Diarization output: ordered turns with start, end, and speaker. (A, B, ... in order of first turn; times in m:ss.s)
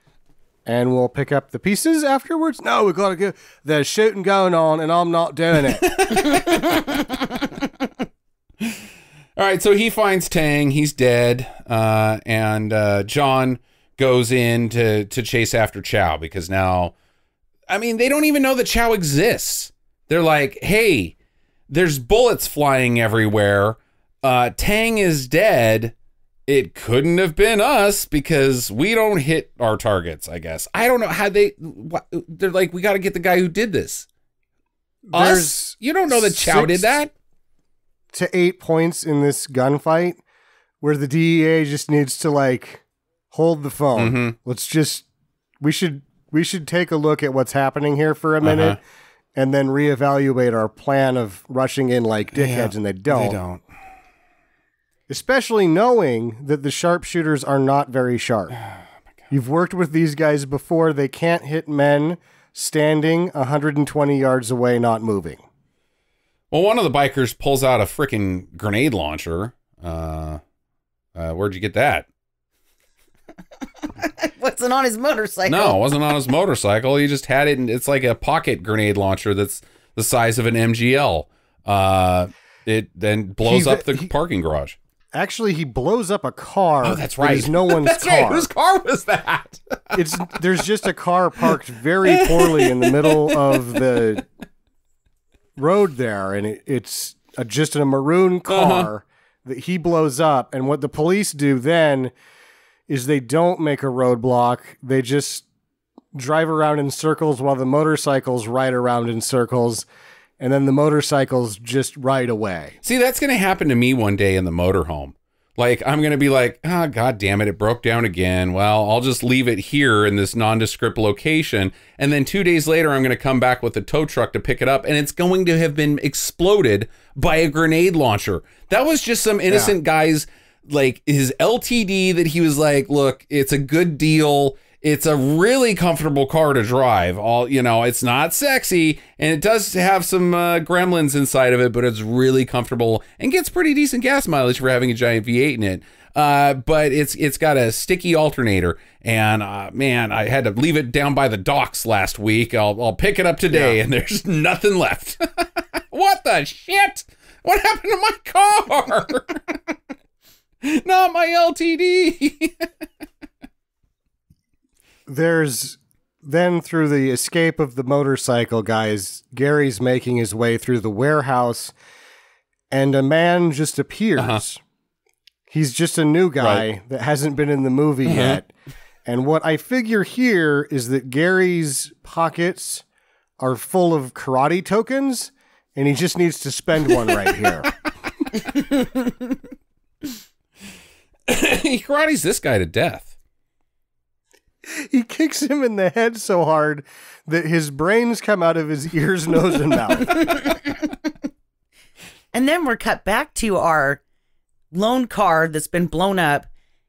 0:00.6-0:06.0 A
0:05.8-0:06.8 B
0:06.2-0:07.2 C
0:09.4-0:16.9 B
0:17.7-0:21.1 B
0:21.7-0:25.9 B
0:26.5-0:34.1 B
0:35.0-0:37.0 A
0:35.1-0:37.1 B
0:38.1-0:40.2 A
0:40.8-0:45.0 A
0:44.0-0:44.4 B
0:45.6-0:48.8 A
0:48.4-0:48.8 B
0:49.3-0:53.4 A
0:52.3-0:53.6 B
0:55.1-0:58.6 A
0:59.3-1:05.4 A
1:06.5-1:10.4 B
1:11.1-1:12.1 B
1:14.0-1:15.8 C
1:15.5-1:24.8 B
1:23.4-1:24.1 A
1:25.1-1:28.5 A
1:26.8-1:30.4 B
1:29.9-1:34.2 A
1:32.0-1:34.0 B
1:35.6-1:42.1 A
1:38.5-1:38.9 B
1:42.9-1:45.4 A
1:46.1-1:49.8 A
1:50.4-1:52.8 A
1:52.8-2:39.7 B
2:09.5-2:09.7 A
2:33.5-2:33.8 A
2:40.6-2:42.7 B
2:45.1-2:51.7 A
2:52.7-2:54.6 A
2:54.2-2:54.4 B
2:55.5-2:58.5 A
2:56.4-2:56.6 B
2:58.1-2:58.4 B
2:59.0-3:02.8 A
3:03.4-3:07.7 A
3:11.3-3:13.1 B
3:14.6-3:20.2 A
3:20.2-3:20.8 C
3:22.3-3:24.0 C
3:24.7-3:26.5 C